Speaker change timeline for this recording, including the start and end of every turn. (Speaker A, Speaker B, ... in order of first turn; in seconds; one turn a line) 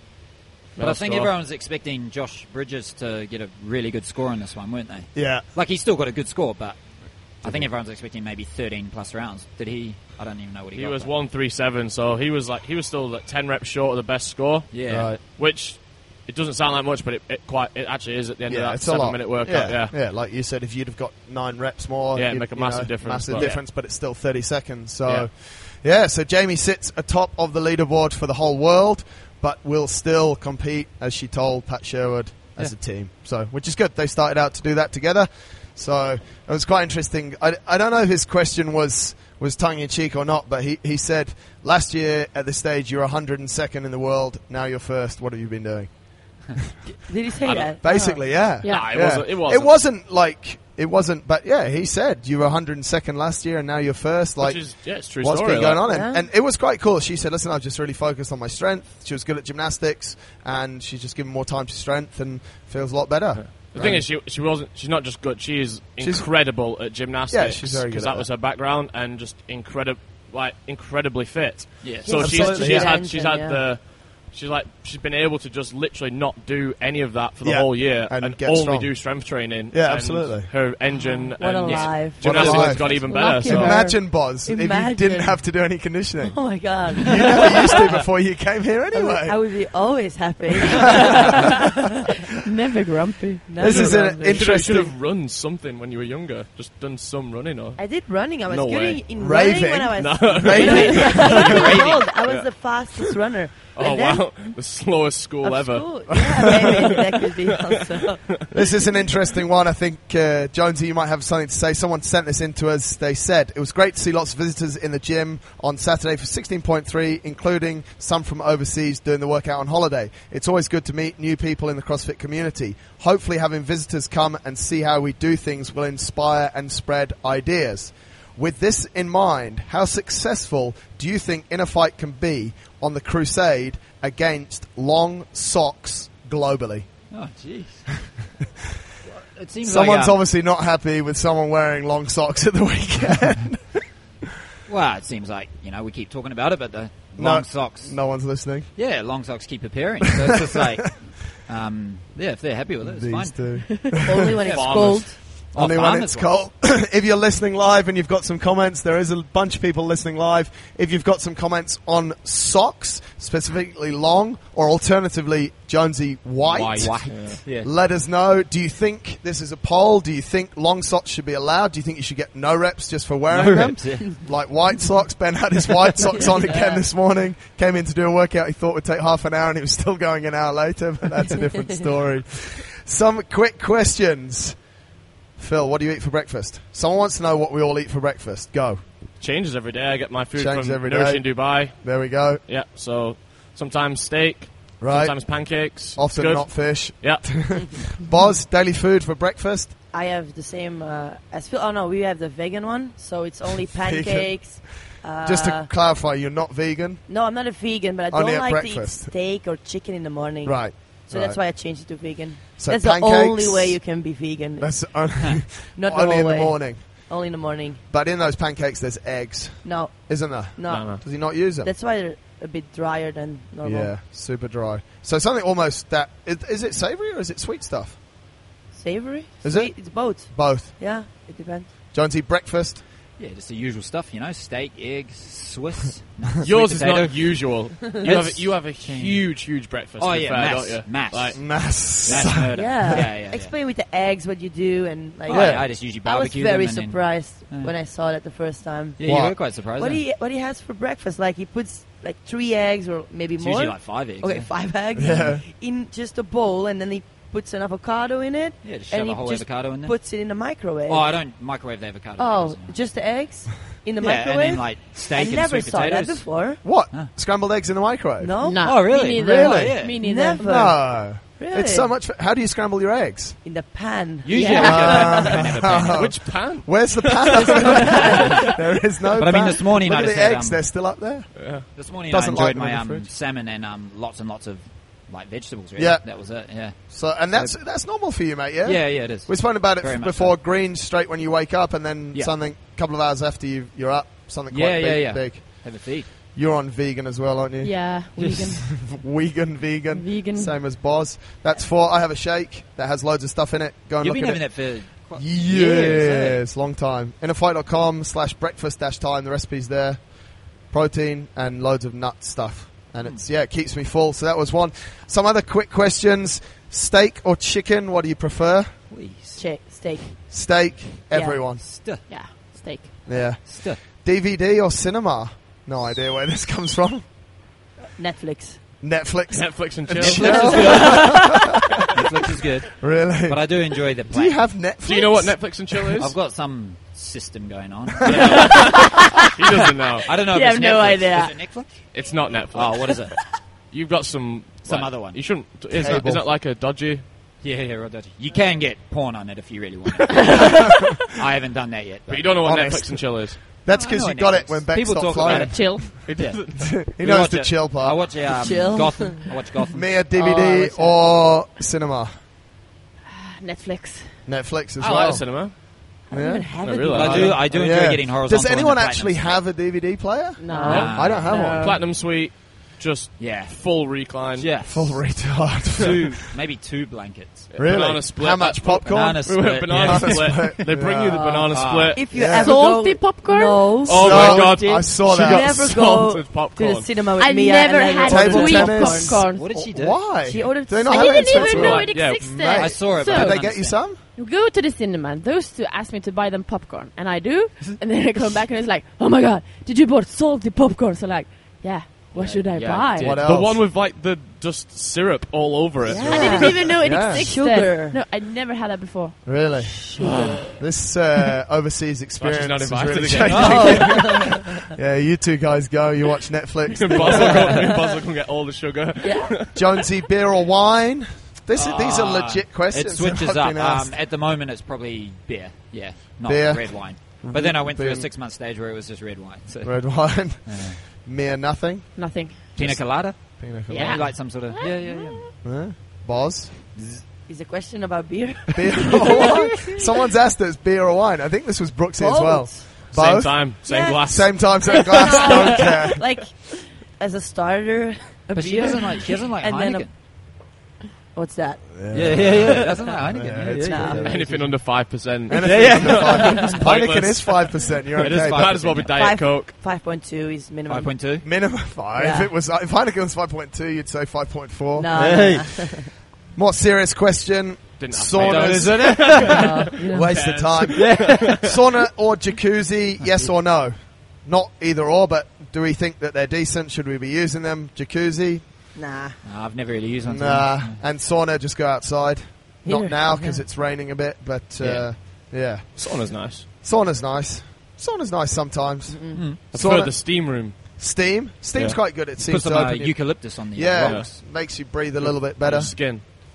Speaker A: 0.8-1.3
Speaker B: 0.8-11.1
Speaker C: 5.2-5.5
Speaker C: 7.4-7.7
Speaker A: 10.8-19.9
Speaker B: 14.7-15.1
Speaker C: 14.9-15.2
Speaker C: 18.5-46.7
Speaker A: 22.1-23.6
Speaker D: 47.0-48.2
Speaker A: 47.5-47.7
Speaker C: 47.8-64.1
Speaker E: 48.6-48.9
Speaker A: 48.6-49.8
Speaker A: 54.4-55.8
Speaker D: 55.9-56.3
Speaker A: 63.4-83.8
Speaker C: 66.0-66.3
Speaker C: 67.3-68.3
Speaker B: 71.8-72.2
Speaker D: 72.0-73.6
Speaker C: 72.2-73.0
Speaker C: 77.4-79.0
Speaker C: 79.7-80.5
Speaker D: 81.0-85.4
Speaker B: 81.6-82.0
Speaker C: 82.2-89.4
Speaker E: 83.0-83.8
Speaker D: 86.2-87.7
Speaker D: 88.9-91.6
Speaker E: 92.3-93.6
Speaker D: 93.5-94.7
Speaker C: 93.6-94.9
Speaker A: 93.6-97.8
Speaker D: 97.8-104.3
Speaker A: 98.5-99.0
Speaker C: 99.2-101.4
Speaker A: 100.0-103.1
Speaker B: 100.6-102.0
Speaker A: 103.8-106.7
Speaker D: 105.4-108.6
Speaker C: 108.5-136.9
Speaker B: 137.1-137.9
Speaker B: 139.1-140.2
Speaker C: 139.6-143.8
Speaker B: 144.7-148.0
Speaker C: 147.2-148.7
Speaker B: 148.8-153.6
Speaker C: 150.4-150.8
Speaker C: 152.8-154.0
Speaker E: 153.7-154.0
Speaker D: 154.0-155.2
Speaker B: 154.4-156.3
Speaker A: 154.4-155.2
Speaker C: 155.5-184.6
Speaker A: 166.5-167.4
Speaker B: 166.8-167.7
Speaker B: 173.3-174.2
Speaker D: 176.0-176.8
Speaker C: 185.4-188.8
Speaker A: 189.2-197.9
Speaker C: 190.3-192.4
Speaker C: 194.8-199.7
Speaker D: 199.9-205.7
Speaker C: 203.8-207.0
Speaker D: 207.1-217.8
Speaker C: 208.1-209.1
Speaker C: 210.4-211.4
Speaker C: 212.6-213.8
Speaker C: 214.6-216.9
Speaker C: 217.9-221.7
Speaker D: 219.6-223.9
Speaker A: 220.7-221.0
Speaker C: 223.6-228.0
Speaker D: 228.7-231.7
Speaker C: 229.4-230.7
Speaker C: 231.9-232.8
Speaker B: 233.2-239.3
Speaker A: 236.4-242.3
Speaker B: 240.0-243.5
Speaker C: 241.3-242.8
Speaker D: 242.5-261.1
Speaker B: 245.3-247.7
Speaker C: 245.3-245.7
Speaker B: 249.0-250.0
Speaker C: 249.0-249.4
Speaker B: 253.4-254.5
Speaker C: 255.0-255.4
Speaker B: 258.6-259.9
Speaker B: 260.9-262.8
Speaker D: 262.2-266.6
Speaker B: 264.0-266.3
Speaker C: 266.6-268.3
Speaker D: 268.2-268.8
Speaker E: 268.4-270.7
Speaker B: 268.6-270.0
Speaker C: 268.9-273.4
Speaker D: 270.0-271.9
Speaker D: 273.4-275.4
Speaker B: 274.2-276.1
Speaker E: 274.3-275.3
Speaker C: 274.6-283.1
Speaker A: 275.9-278.3
Speaker D: 277.4-278.2
Speaker E: 277.6-278.1
Speaker B: 278.0-278.4
Speaker B: 279.1-280.6
Speaker A: 281.4-281.7
Speaker B: 281.7-287.6
Speaker C: 285.8-318.7
Speaker B: 288.6-290.4
Speaker B: 294.5-296.1
Speaker E: 297.6-298.7
Speaker B: 298.2-298.5
Speaker E: 299.9-300.6
Speaker B: 304.0-306.4
Speaker B: 318.9-319.4
Speaker D: 319.4-320.3
Speaker C: 320.3-321.6
Speaker D: 321.1-321.4
Speaker B: 321.6-322.1
Speaker E: 322.1-323.1
Speaker C: 323.1-327.0
Speaker B: 323.2-323.8
Speaker D: 328.0-328.6
Speaker C: 328.8-331.4
Speaker A: 329.3-331.0
Speaker B: 330.0-331.3
Speaker E: 330.5-331.2
Speaker B: 331.9-334.4
Speaker C: 332.8-335.5
Speaker A: 334.9-336.1
Speaker B: 336.0-338.9
Speaker A: 338.1-340.1
Speaker E: 338.2-339.3
Speaker B: 340.1-341.9
Speaker E: 340.1-341.4
Speaker A: 341.9-347.0
Speaker B: 342.5-343.2
Speaker B: 344.6-345.2
Speaker C: 345.7-346.2
Speaker B: 347.4-352.3
Speaker E: 350.1-351.1
Speaker A: 352.1-353.4
Speaker C: 352.4-355.9
Speaker B: 353.7-359.9
Speaker A: 355.2-356.8
Speaker E: 355.3-356.1
Speaker C: 356.6-358.1
Speaker D: 358.3-359.4
Speaker C: 359.7-362.1
Speaker D: 360.1-361.0
Speaker E: 363.1-364.3
Speaker C: 364.3-365.3
Speaker A: 364.8-365.5
Speaker D: 366.1-367.4
Speaker C: 366.1-371.7
Speaker A: 366.6-367.4
Speaker B: 366.9-369.4
Speaker E: 370.4-371.8
Speaker D: 370.5-371.4
Speaker B: 370.6-371.3
Speaker A: 370.7-374.5
Speaker B: 373.2-373.6
Speaker B: 374.4-375.1
Speaker C: 374.6-376.1
Speaker B: 375.7-377.5
Speaker A: 377.5-382.0
Speaker C: 377.6-381.2
Speaker B: 378.7-380.5
Speaker D: 381.1-389.3
Speaker B: 381.5-382.0
Speaker C: 382.1-382.6
Speaker E: 382.2-383.9
Speaker A: 383.8-386.9
Speaker C: 383.9-385.7
Speaker E: 387.2-389.6
Speaker C: 388.1-394.0
Speaker B: 389.3-390.0
Speaker D: 390.2-391.7
Speaker E: 390.8-393.5
Speaker A: 391.5-392.4
Speaker B: 392.5-393.9
Speaker E: 394.1-403.2
Speaker B: 402.1-403.2
Speaker C: 403.0-403.6
Speaker A: 403.0-406.8
Speaker D: 405.9-408.0
Speaker C: 406.0-407.3
Speaker E: 406.0-410.0
Speaker C: 409.2-409.9
Speaker D: 410.0-410.3
Speaker A: 410.0-410.3
Speaker C: 410.6-417.7
Speaker A: 412.2-414.2
Speaker B: 413.2-414.1
Speaker D: 413.4-414.3
Speaker A: 416.7-419.9
Speaker D: 417.5-417.9
Speaker D: 419.0-419.3
Speaker C: 419.5-424.0
Speaker B: 421.5-430.8
Speaker C: 426.2-428.1
Speaker C: 429.6-434.1
Speaker E: 431.9-432.6
Speaker B: 432.6-435.2
Speaker E: 433.7-435.3
Speaker C: 435.4-436.5
Speaker B: 436.8-437.0
Speaker D: 437.3-439.4
Speaker C: 438.5-446.0
Speaker D: 442.0-442.7
Speaker A: 442.9-444.4
Speaker D: 443.6-449.9
Speaker B: 448.4-449.9
Speaker D: 451.1-452.3
Speaker C: 451.7-454.6
Speaker B: 451.9-454.6
Speaker D: 453.4-454.2
Speaker A: 454.0-459.5
Speaker C: 455.3-458.5
Speaker B: 455.3-456.6
Speaker B: 458.0-458.9
Speaker D: 458.9-461.2
Speaker B: 460.7-461.3
Speaker C: 461.2-465.4
Speaker D: 462.0-462.3
Speaker D: 464.8-465.9
Speaker B: 465.0-465.6
Speaker C: 466.4-469.3
Speaker A: 467.8-471.5
Speaker B: 468.2-469.8
Speaker D: 469.3-470.2
Speaker C: 469.9-478.5
Speaker B: 470.7-471.4
Speaker B: 473.0-473.3
Speaker D: 478.8-479.2
Speaker B: 479.2-480.8
Speaker C: 480.1-486.0
Speaker D: 482.6-483.4
Speaker B: 484.6-484.9
Speaker A: 485.8-486.5
Speaker C: 486.6-490.0
Speaker D: 488.9-489.2
Speaker B: 489.1-489.4
Speaker A: 489.5-490.6
Speaker C: 490.7-495.7
Speaker B: 492.2-494.1
Speaker A: 493.8-494.1
Speaker A: 495.0-496.0